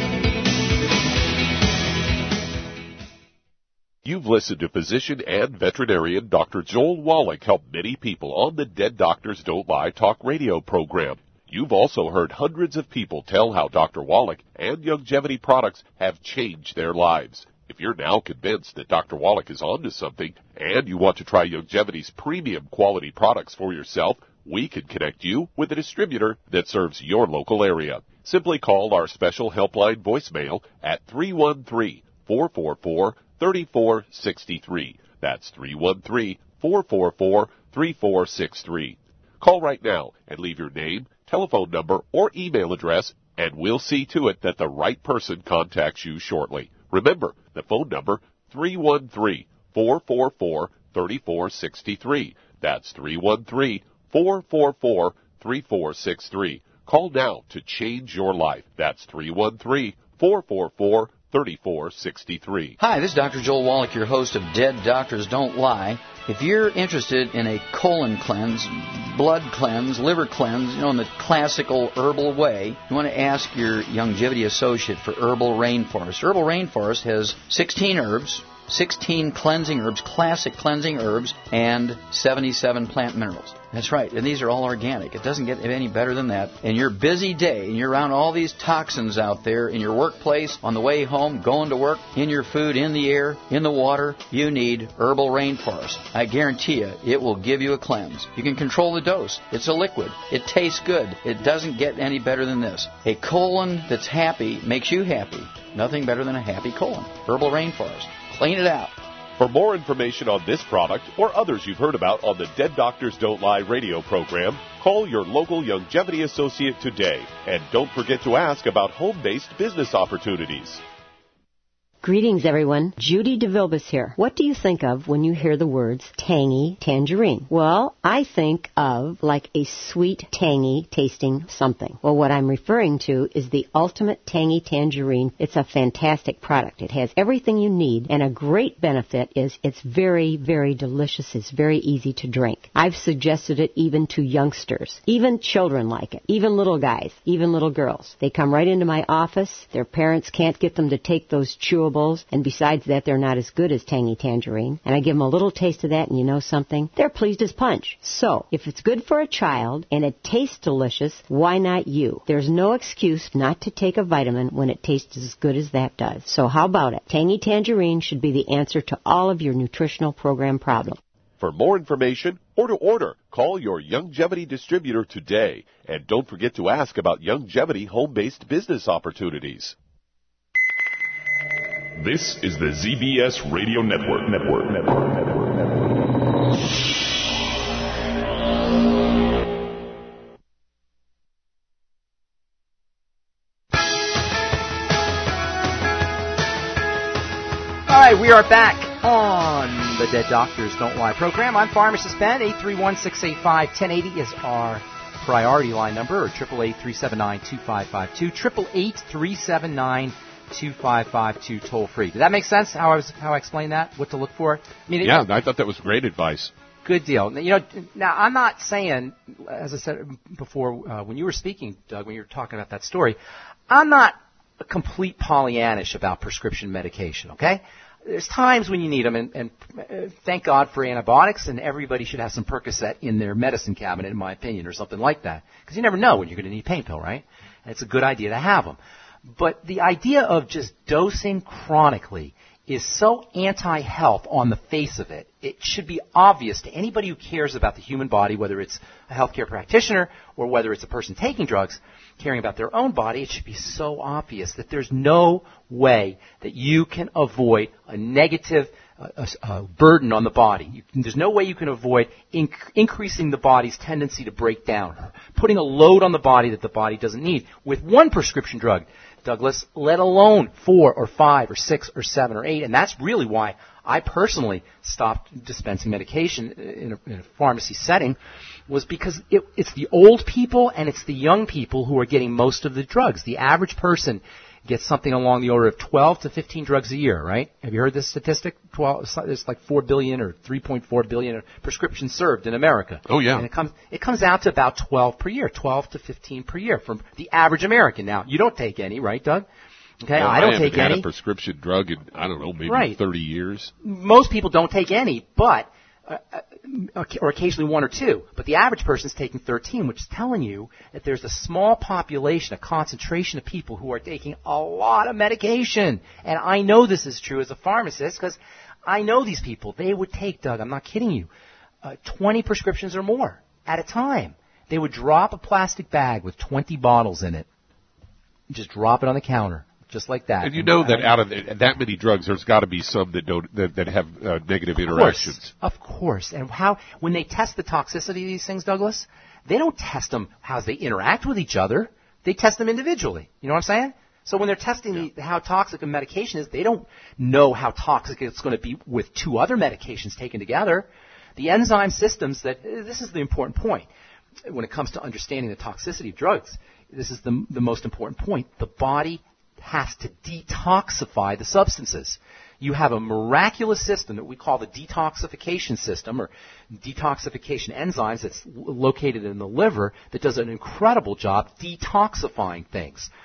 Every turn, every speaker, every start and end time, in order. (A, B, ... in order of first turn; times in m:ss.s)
0:04.0-1:02.8 A
1:02.8-1:49.0 B
1:49.4-2:00.8 A
2:02.0-2:51.0 C
2:51.4-2:59.8 A
3:01.9-3:06.1 D
3:17.9-3:35.2 E
3:35.0-3:36.5 A
3:36.8-3:43.2 E
3:43.7-3:58.8 E
3:59.3-4:59.5 E
4:53.1-4:53.5 A
5:00.0-5:01.1 E
5:00.2-5:03.7 A
5:02.6-5:03.0 E
5:03.8-5:21.3 E
5:21.8-5:27.5 E
5:28.5-5:31.1 E
5:30.4-5:35.5 A
5:34.8-5:53.9 E
5:54.4-6:13.1 E